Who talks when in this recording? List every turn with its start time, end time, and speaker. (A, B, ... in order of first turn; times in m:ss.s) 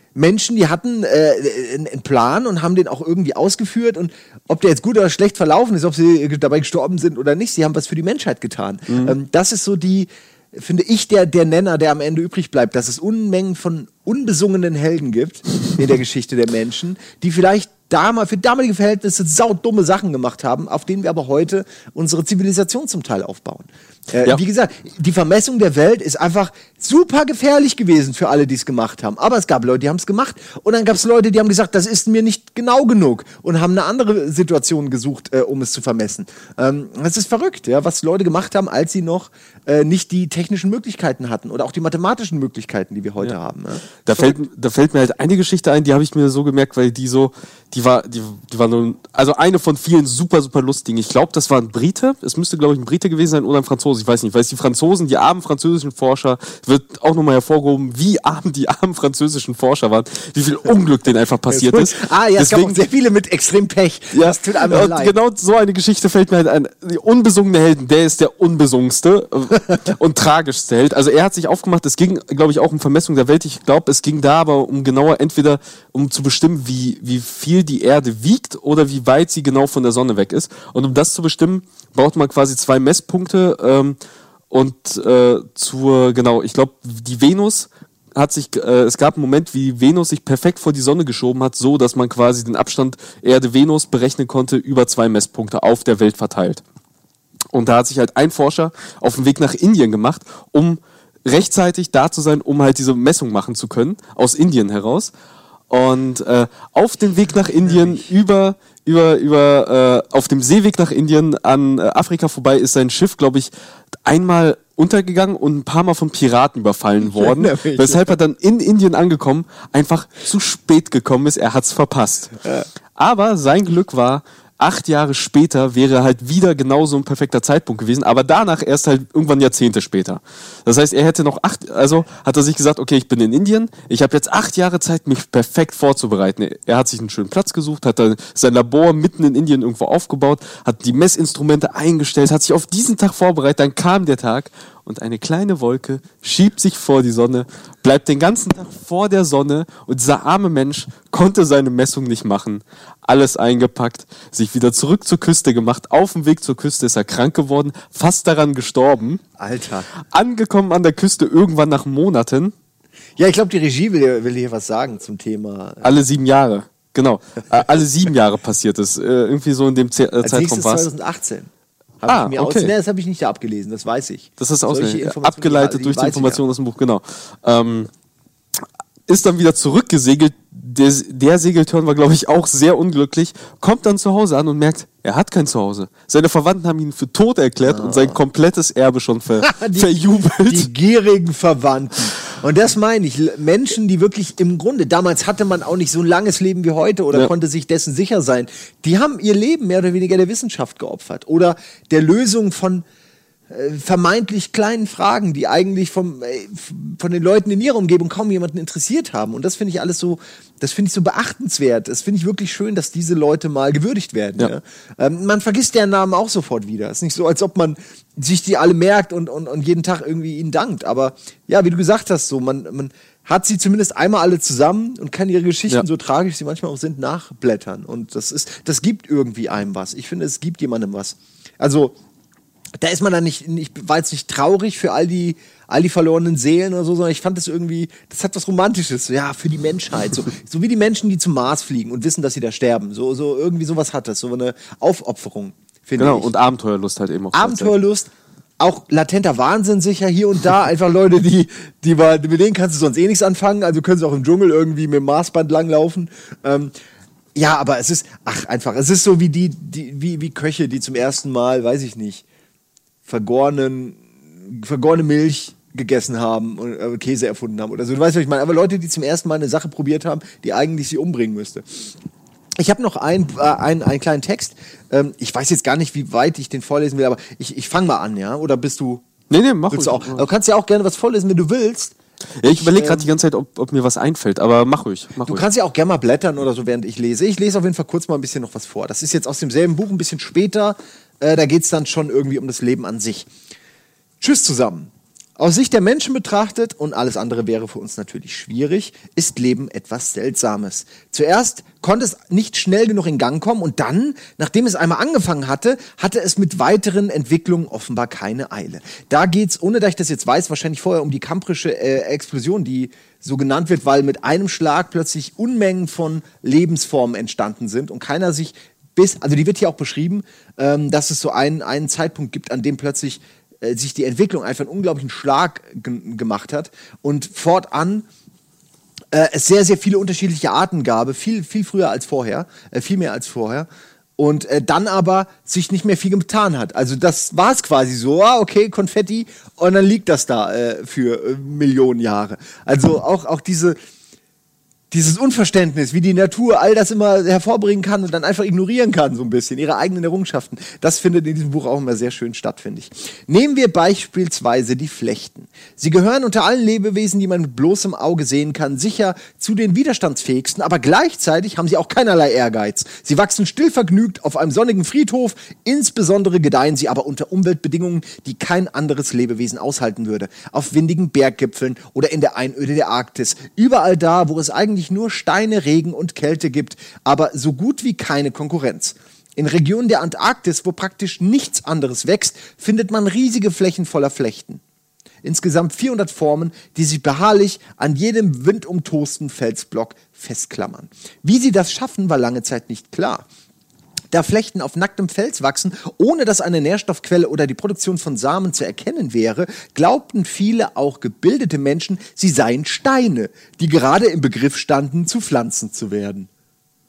0:00.2-0:44.4 A
0:08.9-0:09.2 B
0:44.0-1:02.8 B
1:01.5-1:05.2 A
1:04.1-1:24.0 B
1:24.5-1:36.6 B
1:37.5-1:45.1 B
1:45.7-1:53.5 B
1:54.0-2:02.4 B
1:57.0-1:58.1 A
2:03.0-2:39.2 B
2:39.4-2:39.9 A
2:40.0-2:42.5 B
2:43.2-2:45.8 A
2:45.8-2:50.9 B
2:50.2-2:51.5 A
2:52.0-2:56.4 A
2:52.1-2:52.7 B
2:54.4-2:57.9 B
2:59.1-3:10.7 B
3:07.6-3:08.2 A
3:09.4-3:22.8 A
3:23.5-3:52.0 A
3:52.8-4:06.3 A
4:06.0-4:07.7 B
4:07.3-4:16.7 A
4:17.4-4:22.2 A
4:23.1-4:31.7 A
4:32.6-4:39.1 A
4:39.3-4:40.2 B
4:39.7-4:42.0 A
4:42.4-4:45.4 B
4:42.5-4:43.1 A
4:45.2-4:53.3 A
4:54.2-5:28.1 A
5:29.1-5:33.7 A
5:34.2-5:43.8 A
5:44.9-6:24.6 A
6:25.2-6:33.3 A
6:34.1-6:46.3 A